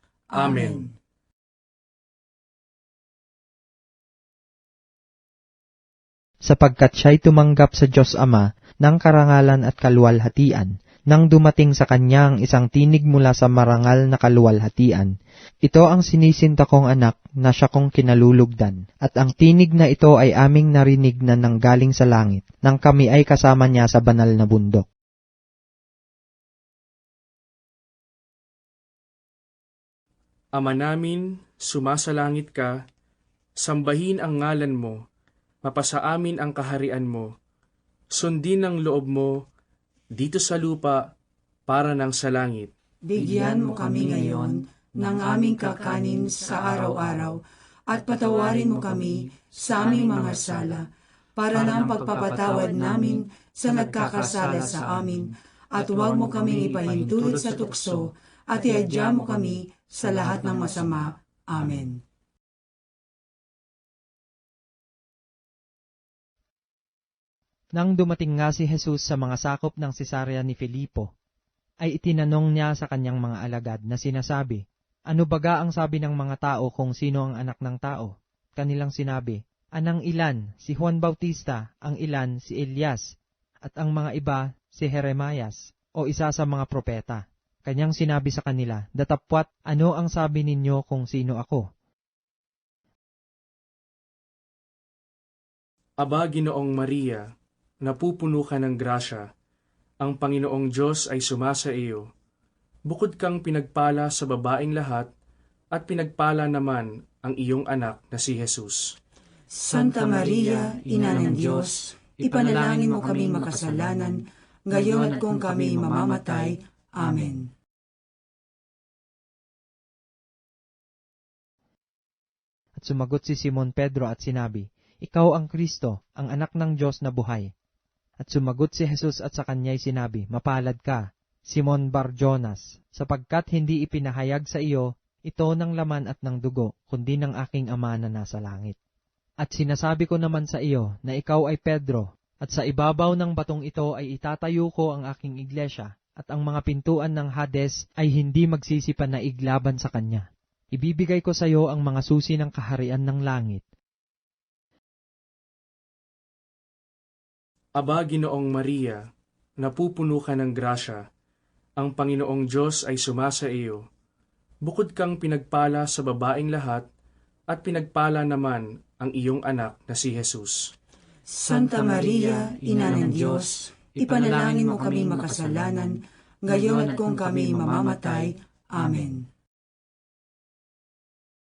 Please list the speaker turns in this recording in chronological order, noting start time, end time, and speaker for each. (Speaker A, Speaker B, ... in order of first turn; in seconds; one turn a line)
Speaker A: 0.3-0.9
Speaker B: 0.3-0.9
Speaker C: 6.5-15.1
Speaker C: 15.7-24.9
Speaker B: 30.5-32.8
Speaker B: 33.6-35.0
Speaker B: 35.6-37.3
Speaker B: 38.1-39.4
Speaker B: 40.1-41.0
Speaker B: 41.7-42.7
Speaker A: 43.0-62.0
Speaker C: 67.8-71.1
Speaker C: 71.8-83.0
Speaker C: 83.6-91.7
Speaker B: 96.0-97.3
Speaker B: 97.8-99.3
Speaker B: 100.0-102.1
Speaker B: 102.8-105.1
Speaker B: 105.7-109.0
Speaker A: 109.5-117.5
Speaker C: 122.8-127.5
Speaker C: 128.2-138.8
Speaker C: 139.4-153.6
Speaker B: 157.8-159.0
Speaker B: 159.6-161.0
Speaker B: 161.8-163.8
Speaker B: 164.6-166.8
Speaker B: 167.5-170.7
Speaker A: 171.3-179.3